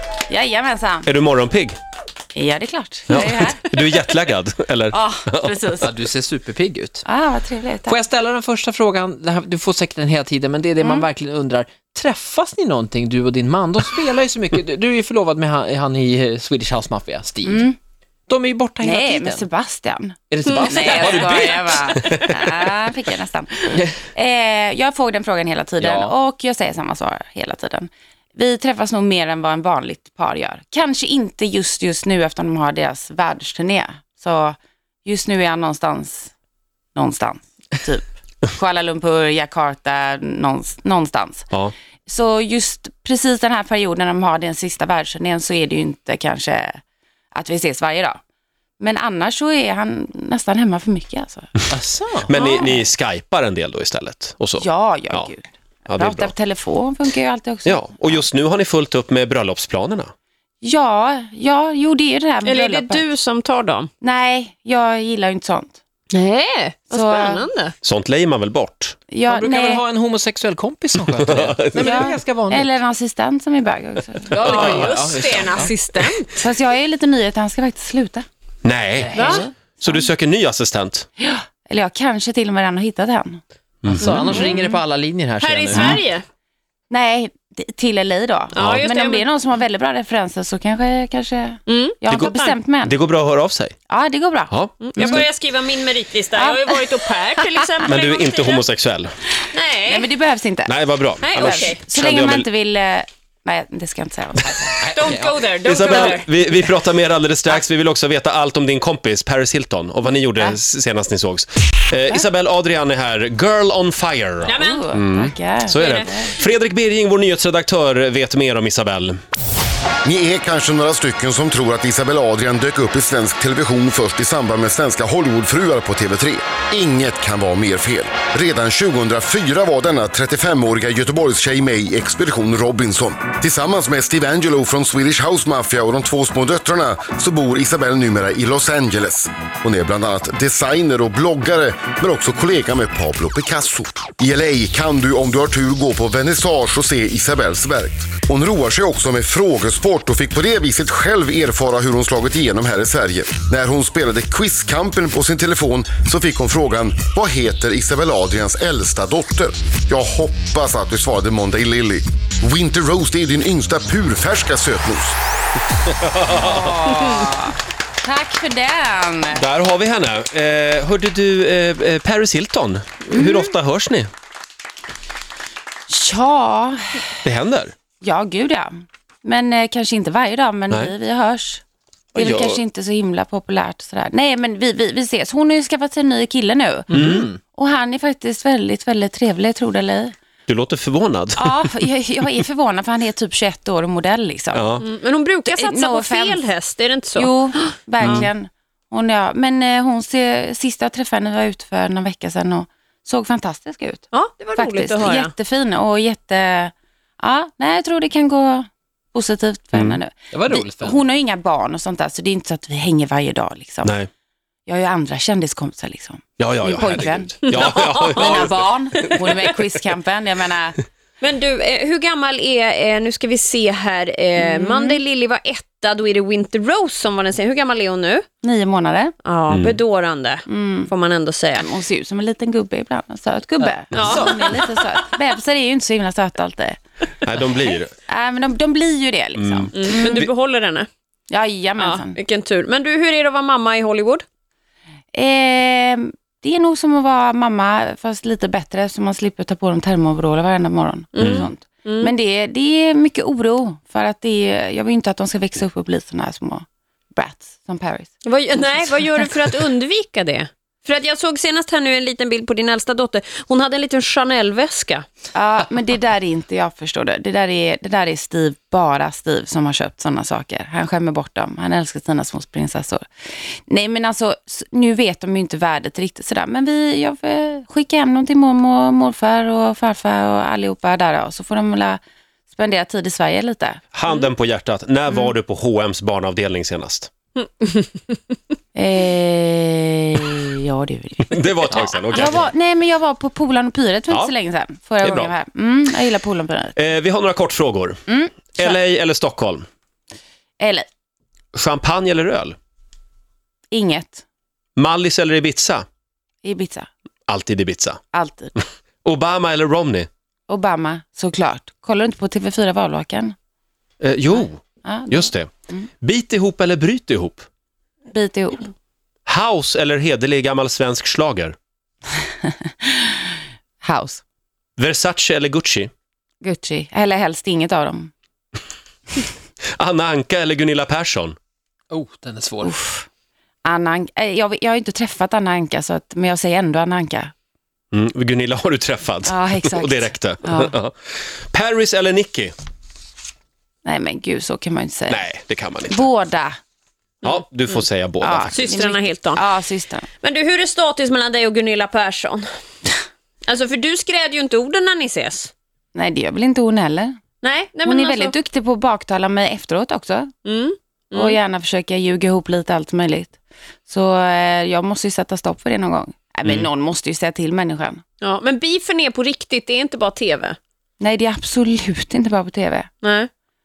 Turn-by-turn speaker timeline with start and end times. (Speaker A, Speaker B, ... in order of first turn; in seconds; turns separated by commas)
Speaker A: 0.3-1.1, Speaker B: 1.0-1.8, Speaker A: 2.3-3.9, Speaker B: 3.1-5.8, Speaker A: 4.9-5.9, Speaker C: 5.8-7.0, Speaker A: 7.0-8.0, Speaker C: 7.8-17.7, Speaker A: 10.8-11.1, Speaker A: 17.4-17.8, Speaker C: 18.3-19.4, Speaker A: 18.8-36.3, Speaker C: 20.3-22.2, Speaker D: 20.4-21.7, Speaker C: 23.7-24.0, Speaker C: 25.8-26.1, Speaker A: 37.0-41.5, Speaker A: 42.1-46.8, Speaker A: 47.3-48.2, Speaker A: 48.8-51.5, Speaker C: 51.7-52.3, Speaker B: 52.2-55.3, Speaker D: 52.3-52.7, Speaker A: 54.6-58.2, Speaker B: 55.9-56.3, Speaker B: 57.6-60.1, Speaker A: 60.6-63.1, Speaker D: 62.4-63.9, Speaker A: 64.0-65.8, Speaker D: 66.1-67.7, Speaker A: 66.9-67.4, Speaker B: 67.8-68.9, Speaker A: 69.1-69.8, Speaker C: 69.2-72.8, Speaker B: 71.2-71.8, Speaker A: 71.8-74.5, Speaker C: 74.3-75.7, Speaker D: 74.3-76.3, Speaker A: 76.4-78.2, Speaker B: 78.6-81.1, Speaker C: 79.0-79.5, Speaker D: 79.1-79.5, Speaker A: 79.8-80.1, Speaker A: 81.2-83.4, Speaker B: 83.8-84.3, Speaker C: 83.9-86.0, Speaker A: 84.3-84.8, Speaker D: 85.4-86.2, Speaker A: 85.7-86.0, Speaker A: 86.9-93.0, Speaker D: 88.5-89.2, Speaker B: 88.6-88.8, Speaker D: 91.7-92.5, Speaker B: 92.1-93.8, Speaker A: 93.9-95.2, Speaker B: 94.5-95.2, Speaker D: 94.8-98.6, Speaker A: 96.3-96.8, Speaker B: 97.8-99.1, Speaker D: 99.5-100.1, Speaker A: 99.9-100.8, Speaker B: 100.7-102.5, Speaker D: 101.2-101.8, Speaker A: 101.3-104.6, Speaker C: 104.6-106.1, Speaker D: 104.9-106.3, Speaker B: 105.6-119.2, Speaker D: 114.4-114.8, Speaker A: 114.5-116.4, Speaker D: 115.7-116.1, Speaker E: 120.0-165.1, Speaker B: 166.0-167.2, Speaker A: 166.3-169.4, Speaker B: 169.3-174.1, Speaker A: 173.1-173.5, Speaker A: 175.9-177.1, Speaker B: 177.2-177.7, Speaker A: 178.0-181.6, Speaker A: 182.1-190.1, Speaker B: 182.2-182.6, Speaker B: 186.9-187.2, Speaker C: 186.9-187.4, Speaker B: 190.5-191.7, Speaker A: 191.4-194.7, Speaker B: 194.5-194.8, Speaker D: 194.8-198.2, Speaker A: 195.5-196.4, Speaker A: 197.2-213.9, Speaker B: 198.0-198.3, Speaker D: 204.1-205.3, Speaker B: 209.7-210.0, Speaker C: 210.3-211.0, Speaker B: 213.8-214.1, Speaker A: 214.7-220.8, Speaker B: 216.4-218.6, Speaker D: 217.5-218.5, Speaker D: 219.1-219.4, Speaker D: 221.2-228.3, Speaker A: 224.4-225.0, Speaker A: 228.4-229.1, Speaker D: 229.2-231.7, Speaker B: 229.5-229.8, Speaker A: 230.5-230.9, Speaker A: 231.5-236.8, Speaker D: 233.9-234.3, Speaker B: 233.9-234.5, Speaker B: 237.2-237.9, Speaker A: 237.6-240.3, Speaker B: 239.3-240.3, Speaker D: 239.7-240.9, Speaker A: 241.3-242.2, Speaker D: 241.8-244.2, Speaker A: 245.1-259.2, Speaker D: 251.1-252.1, Speaker B: 251.2-251.5, Speaker D: 258.2-265.1, Speaker A: 265.3-273.0, Speaker A: 273.7-282.0, Speaker A: 282.5-283.8, Speaker B: 283.9-287.1, Speaker D: 287.6-288.1, Speaker A: 288.7-296.7, Speaker B: 291.3-292.5, Speaker B: 295.0-295.3, Speaker B: 296.8-298.0, Speaker A: 298.1-298.8, Speaker B: 298.5-299.6, Speaker A: 300.6-300.9, Speaker B: 301.5-302.6, Speaker A: 303.7-304.2, Speaker B: 304.8-305.9, Speaker A: 306.4-306.9, Speaker B: 307.3-308.0, Speaker A: 308.1-308.5, Speaker B: 309.0-310.1, Speaker A: 310.5-313.3, Speaker B: 314.0-315.5, Speaker A: 314.8-315.9, Speaker B: 316.0-317.5, Speaker A: 318.1-318.7, Speaker B: 319.2-321.5, Speaker A: 322.7-323.2, Speaker A: 323.8-324.2, Speaker B: 324.8-325.9, Speaker A: 326.4-328.1, Speaker B: 329.8-331.4, Speaker C: 331.9-332.8, Speaker A: 332.6-333.1, Speaker A: 333.6-337.3, Speaker B: 337.9-342.5, Speaker A: 339.2-340.7, Speaker A: 343.8-345.2, Speaker B: 345.1-346.1, Speaker A: 345.9-346.6, Speaker B: 347.2-348.6, Speaker A: 348.2-350.1, Speaker D: 348.5-349.4, Speaker D: 350.2-352.4, Speaker D: 353.5-355.5, Speaker A: 355.9-357.2, Speaker D: 357.4-358.3, Speaker A: 357.8-360.3, Speaker D: 360.4-361.4, Speaker A: 361.1-363.4, Speaker A: 363.9-368.0, Speaker D: 368.2-370.6, Speaker A: 371.0-372.9, Speaker D: 373.0-373.3